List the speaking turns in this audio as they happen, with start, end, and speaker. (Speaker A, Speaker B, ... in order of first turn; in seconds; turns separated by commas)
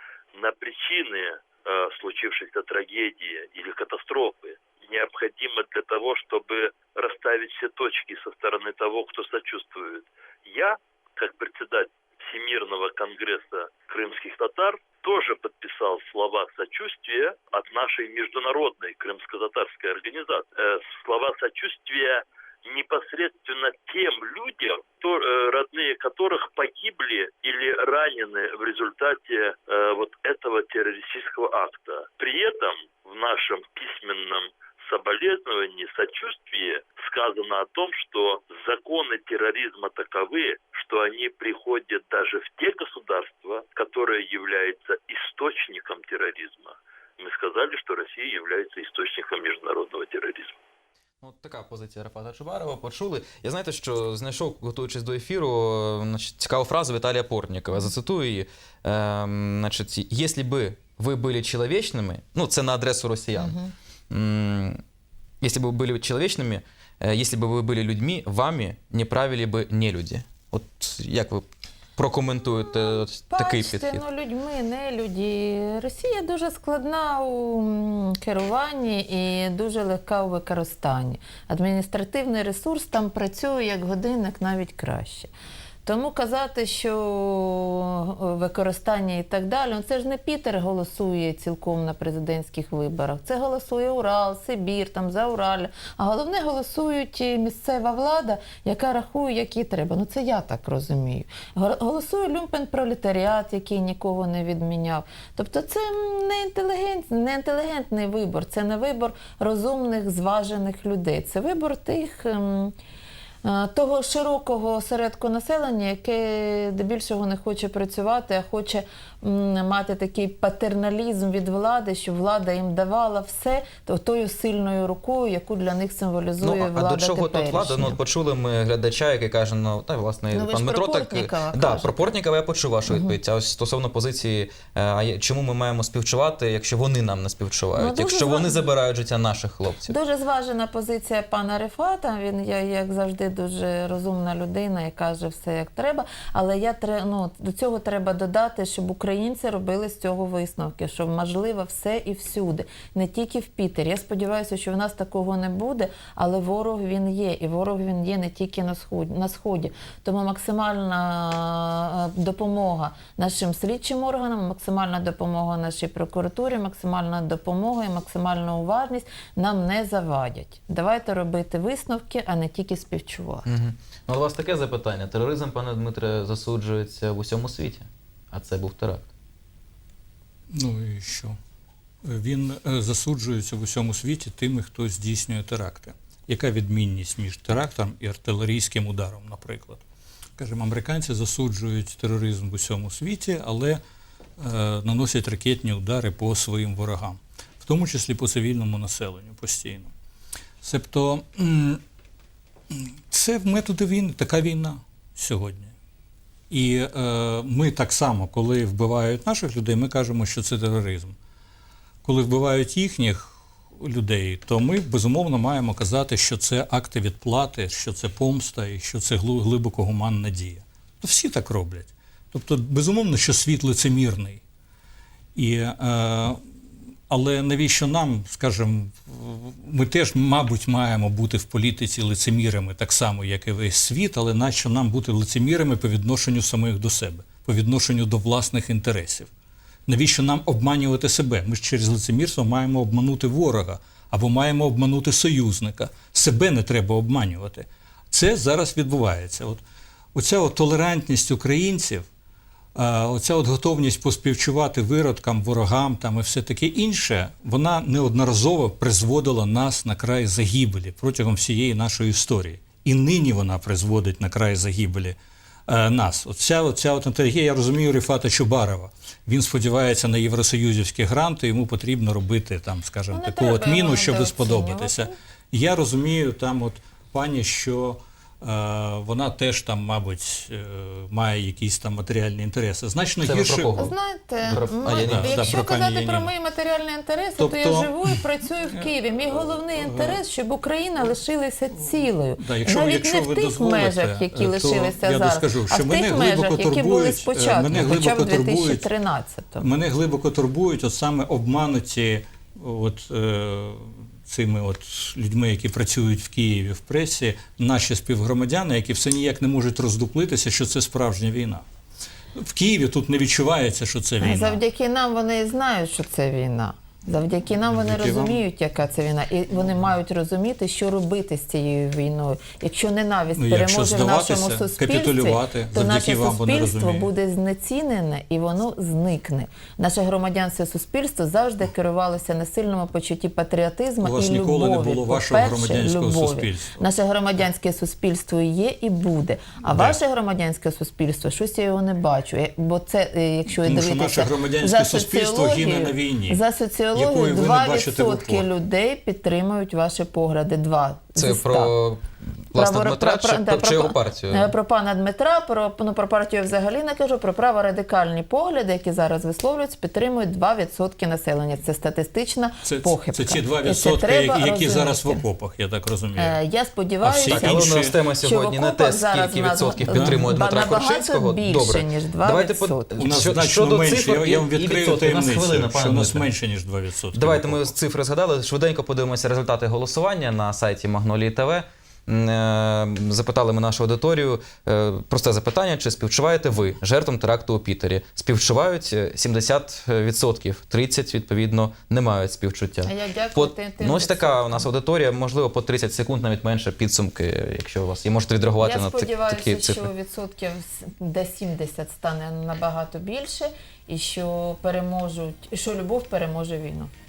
Speaker A: 0.3-50.5, Speaker B: 51.2-63.5, Speaker C: 63.4-63.7, Speaker B: 64.1-64.8, Speaker B: 65.4-74.0, Speaker C: 72.6-85.3, Speaker C: 85.8-112.7, Speaker C: 113.4-128.0, Speaker B: 126.4-139.9, Speaker C: 130.3-132.2, Speaker C: 132.9-133.2, Speaker C: 137.7-138.7, Speaker C: 139.9-173.5, Speaker B: 173.4-179.1, Speaker D: 180.5-181.4, Speaker D: 182.0-189.8, Speaker D: 190.4-193.8, Speaker D: 194.4-199.9, Speaker D: 200.6-201.8, Speaker D: 202.7-205.7, Speaker D: 206.5-211.2, Speaker D: 212.0-224.4, Speaker D: 225.3-226.4, Speaker D: 227.1-239.3, Speaker D: 239.9-249.6, Speaker D: 250.1-252.1, Speaker D: 252.7-265.1, Speaker D: 265.7-283.8, Speaker C: 273.1-275.1, Speaker B: 283.2-283.9, Speaker C: 283.8-299.7, Speaker B: 284.5-285.4, Speaker D: 284.5-286.3, Speaker D: 287.4-288.2, Speaker D: 288.8-290.2, Speaker D: 291.8-298.9, Speaker D: 299.6-311.6, Speaker D: 312.4-314.6, Speaker C: 314.2-351.7, Speaker D: 317.7-318.4, Speaker D: 323.4-327.1, Speaker D: 334.0-336.8, Speaker D: 339.7-340.0, Speaker D: 343.5-346.4, Speaker D: 346.9-348.4, Speaker B: 351.2-354.5, Speaker C: 352.5-365.2, Speaker D: 362.6-366.4, Speaker C: 366.2-372.9, Speaker D: 367.0-367.9, Speaker B: 367.2-376.3, Speaker D: 369.8-370.2, Speaker D: 373.0-377.7, Speaker B: 377.1-399.9, Speaker C: 392.8-394.7, Speaker C: 398.6-406.9